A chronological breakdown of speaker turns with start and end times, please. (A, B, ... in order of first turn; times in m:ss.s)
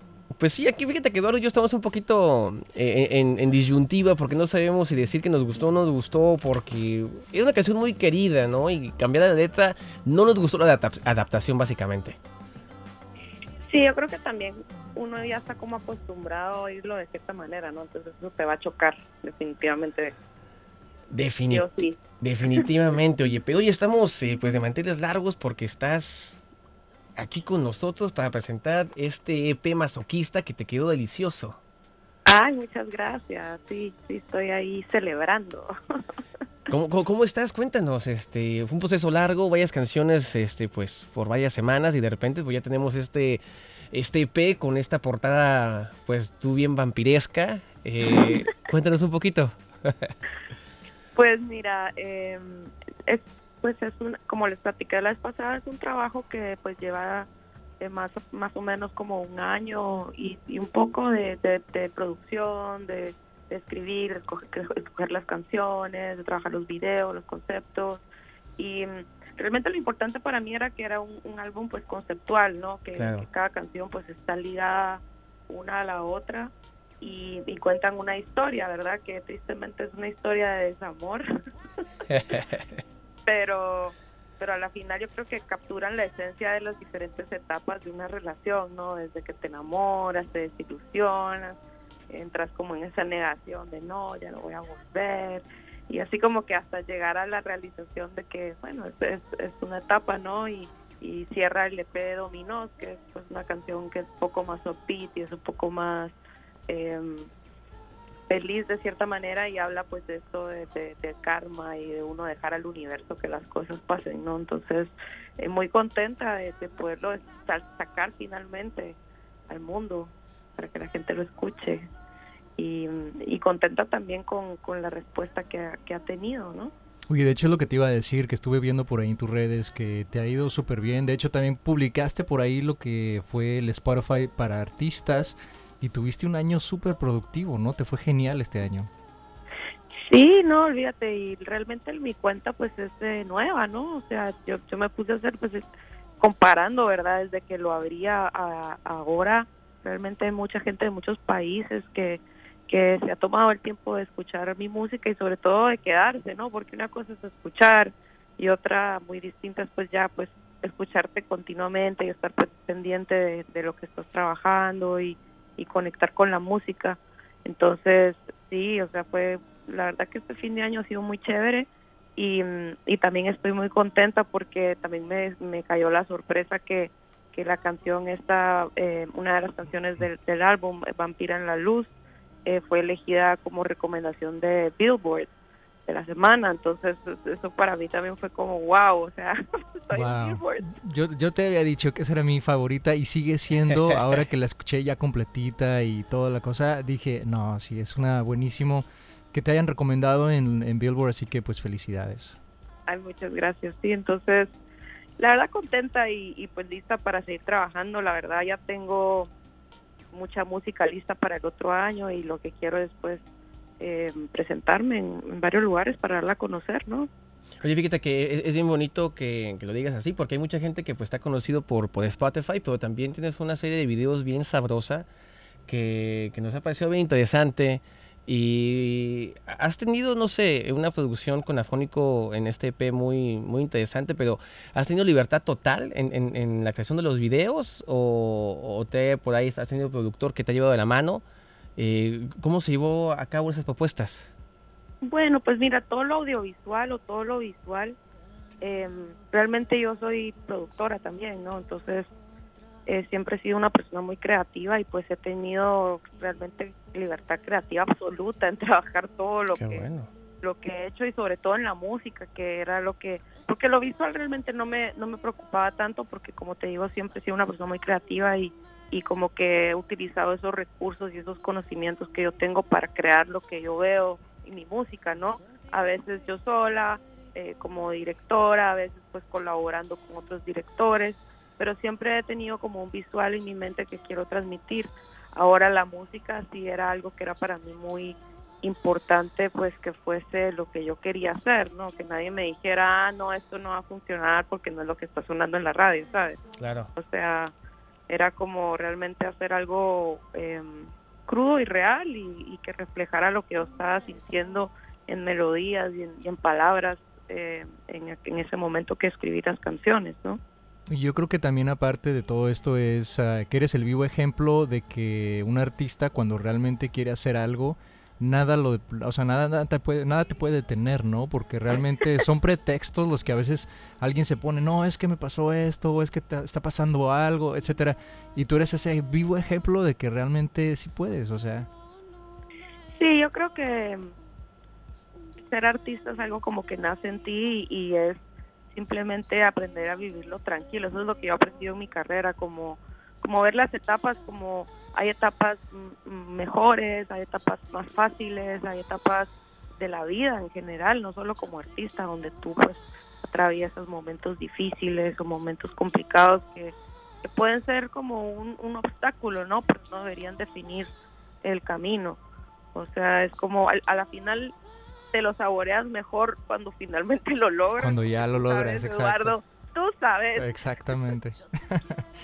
0:00.4-0:12.2 A
0:13.7-0:20.1 B
0:21.1-0:21.6 A
0:21.5-0:22.7 B
0:22.2-0:26.4 A
0:27.2-0:31.6 A
0:32.3-0:35.7 B
0:36.7-0:43.4 A
0:43.9-0:50.1 A
0:51.2-0:57.3 B
0:57.8-1:08.0 B
1:08.6-1:21.3 B
1:12.9-1:13.2 A
1:22.1-1:22.8 A
1:23.2-1:46.1 B
1:46.7-1:47.3 B
1:48.3-1:59.0 B
1:59.5-2:01.8 B
2:02.6-2:06.7 B
2:07.1-2:18.9 C
2:20.0-2:25.6 B
2:26.2-3:01.9 B
3:02.4-3:05.3 B
3:05.9-3:10.7 B
3:09.9-3:22.4 C
3:13.7-3:14.1 A
3:22.9-3:24.6 B
3:25.2-3:29.3 B
3:30.1-3:33.2 B
3:33.8-3:37.1 B
3:37.6-3:45.1 A
3:45.7-4:01.2 A
4:01.8-4:04.3 A
4:05.0-4:08.0 B
4:08.6-4:12.1 B
4:12.8-4:19.9 B
4:19.6-4:20.1 A
4:20.4-4:56.4 B
4:56.6-4:56.9 A
4:56.9-4:57.5 B
4:58.1-5:10.4 B
5:10.9-5:31.7 C
5:33.0-5:34.1 B
5:35.5-5:38.2 B
5:38.7-6:00.9 B
6:01.4-6:02.2 B
6:02.7-6:04.5 B
6:05.1-6:10.5 B
6:07.8-6:09.3 C
6:10.4-6:12.0 C